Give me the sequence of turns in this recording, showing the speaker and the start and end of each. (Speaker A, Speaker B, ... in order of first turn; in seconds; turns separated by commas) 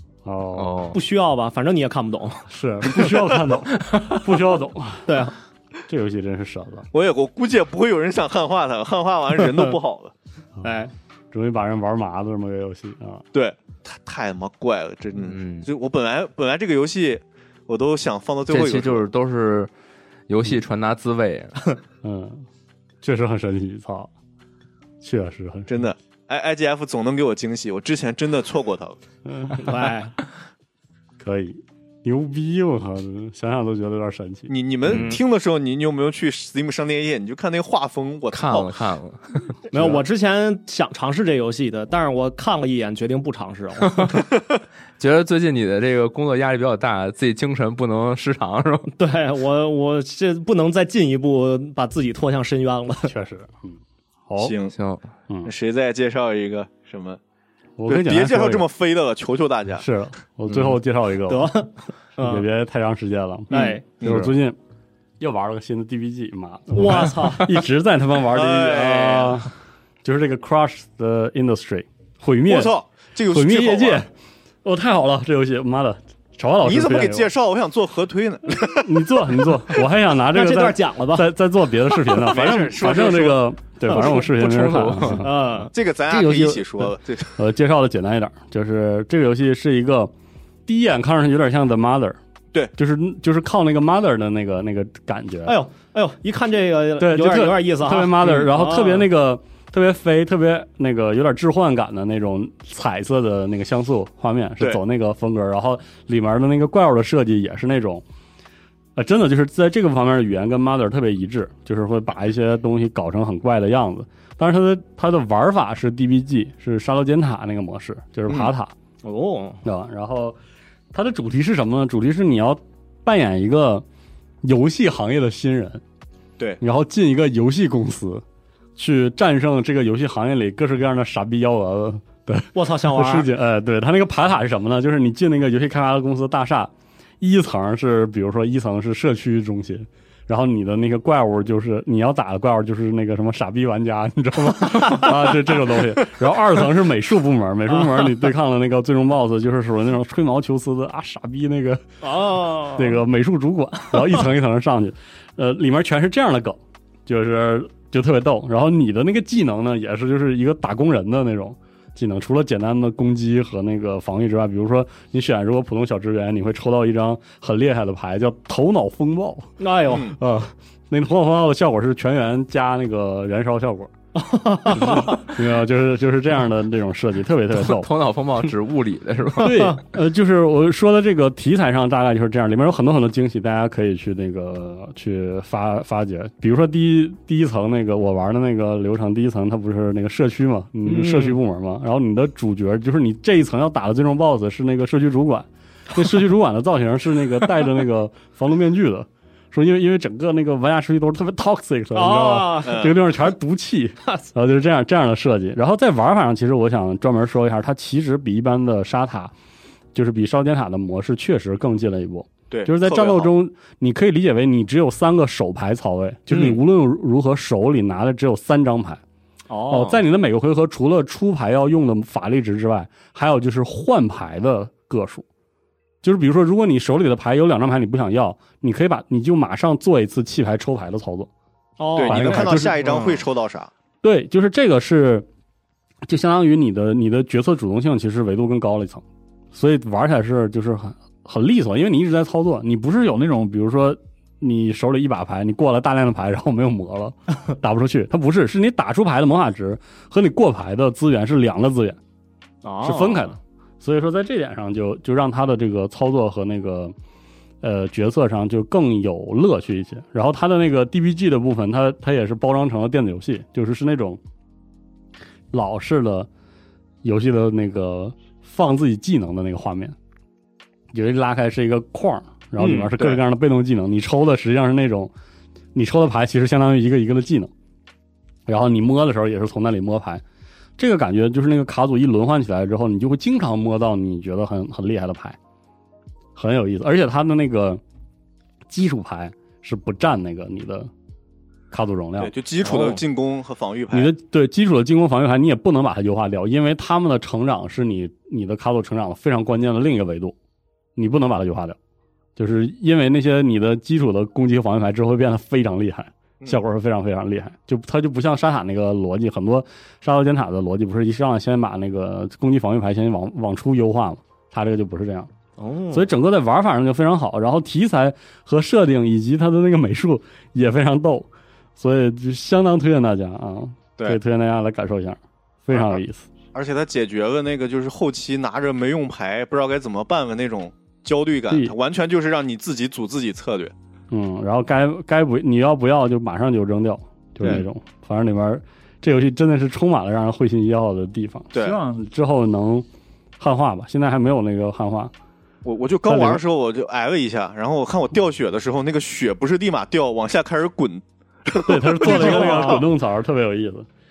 Speaker A: 0.2-0.8, Speaker B: 0.6-1.0, Speaker C: 0.9-3.1, Speaker A: 2.5-5.2, Speaker C: 5.1-5.3, Speaker A: 5.9-6.9, Speaker D: 6.9-10.1, Speaker C: 10.6-10.9, Speaker A: 11.3-13.2, Speaker D: 13.3-19.0, Speaker B: 15.2-15.7, Speaker B: 18.5-19.7, Speaker B: 20.3-21.6, Speaker A: 22.0-22.5, Speaker A: 23.0-24.1, Speaker A: 25.0-25.7, Speaker D: 25.7-29.0, Speaker A: 29.3-29.9, Speaker C: 29.6-30.1, Speaker A: 31.2-34.5, Speaker D: 34.5-38.7, Speaker C: 34.9-35.2, Speaker B: 38.3-39.5, Speaker C: 39.7-44.2, Speaker B: 43.9-44.2, Speaker B: 45.0-48.9, Speaker C: 48.9-53.1, Speaker A: 53.1-54.5, Speaker D: 54.4-54.8, Speaker B: 54.7-55.1, Speaker D: 55.5-57.2, Speaker A: 57.8-58.7, Speaker D: 57.9-59.9, Speaker A: 59.8-61.5, Speaker C: 61.3-62.5, Speaker A: 62.2-64.6, Speaker C: 63.5-63.9, Speaker D: 63.5-64.3, Speaker A: 65.2-69.5, Speaker C: 66.7-67.6, Speaker D: 68.3-69.5, Speaker A: 70.0-72.7, Speaker D: 72.5-74.0, Speaker A: 73.3-74.1, Speaker A: 74.6-77.3, Speaker D: 76.6-79.0, Speaker A: 78.7-85.3, Speaker C: 80.3-81.3, Speaker D: 82.3-83.4, Speaker B: 84.0-85.3, Speaker C: 85.2-85.7, Speaker D: 85.7-87.3, Speaker A: 86.1-90.1, Speaker A: 90.7-92.2, Speaker A: 92.7-95.5, Speaker C: 95.5-99.1, Speaker A: 97.0-108.0, Speaker A: 109.0-118.7, Speaker C: 119.0-119.6, Speaker A: 119.6-120.4, Speaker A: 120.9-123.8, Speaker A: 124.4-125.8, Speaker A: 126.6-128.2, Speaker A: 128.8-151.9, Speaker C: 132.5-133.3, Speaker C: 144.8-145.1, Speaker C: 147.7-148.1, Speaker C: 152.0-153.0, Speaker A: 152.8-173.9, Speaker C: 169.6-170.1, Speaker D: 169.9-170.2, Speaker C: 174.2-175.2, Speaker A: 174.7-177.9, Speaker B: 177.5-179.7, Speaker A: 179.4-209.3, Speaker C: 179.4-179.8, Speaker C: 190.8-191.4, Speaker C: 201.9-202.9, Speaker D: 202.7-203.0, Speaker A: 209.9-219.0, Speaker D: 212.5-213.3, Speaker C: 216.3-216.6, Speaker C: 219.5-220.0, Speaker A: 219.7-225.2, Speaker A: 226.0-231.3, Speaker C: 231.8-233.2, Speaker D: 232.0-233.7, Speaker A: 232.1-232.8, Speaker A: 234.0-235.3, Speaker A: 236.1-252.0, Speaker C: 252.6-253.3, Speaker A: 252.8-256.9, Speaker A: 257.6-264.2, Speaker A: 265.5-266.3, Speaker A: 267.0-270.0, Speaker A: 270.9-275.1, Speaker C: 272.6-273.0, Speaker A: 275.7-277.5, Speaker A: 278.5-280.2, Speaker A: 280.8-285.4, Speaker A: 286.4-287.8, Speaker A: 288.7-290.9, Speaker A: 291.7-292.3, Speaker D: 292.2-294.1, Speaker C: 292.6-293.0, Speaker A: 293.9-300.4, Speaker A: 301.0-301.8, Speaker A: 302.4-315.3, Speaker C: 315.6-316.1, Speaker A: 315.9-326.3, Speaker D: 325.7-326.0, Speaker D: 326.5-333.7, Speaker A: 334.1-342.9, Speaker D: 341.5-341.8, Speaker A: 343.4-345.1, Speaker D: 345.6-352.8, Speaker A: 346.1-346.4, Speaker A: 351.7-353.9, Speaker C: 352.2-352.8